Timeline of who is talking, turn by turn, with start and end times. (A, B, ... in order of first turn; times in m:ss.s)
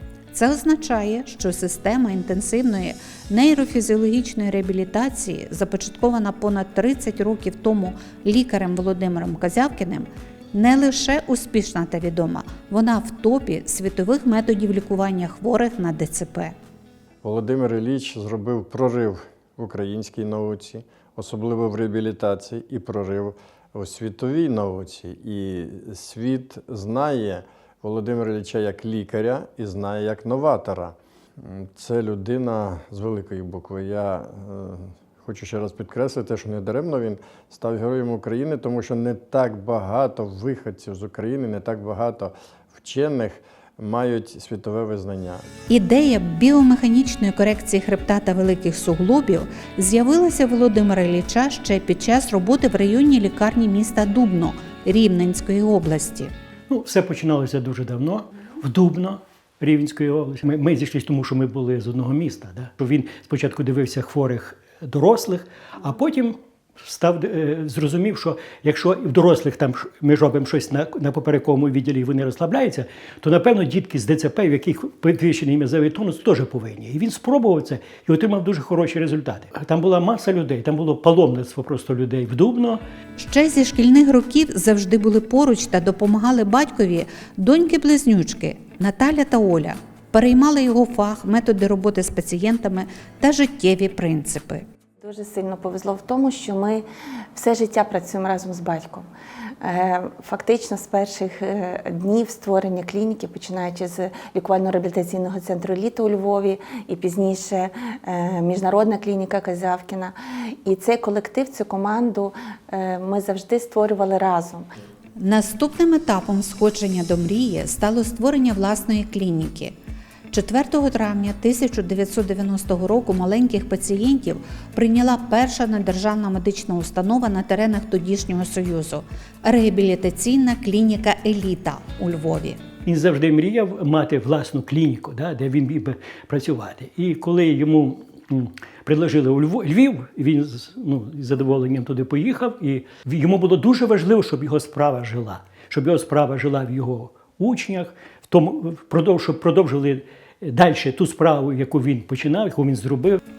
0:00.3-0:16.5 A
0:17.2-0:45.4 B
0:45.7-0:56.3 A
0:56.7-1:22.8 C
1:23.2-1:34.6 A
1:35.0-1:39.1 D
1:39.6-1:54.7 D
1:55.2-1:59.8 A
2:00.3-2:12.6 A
2:12.8-2:33.2 C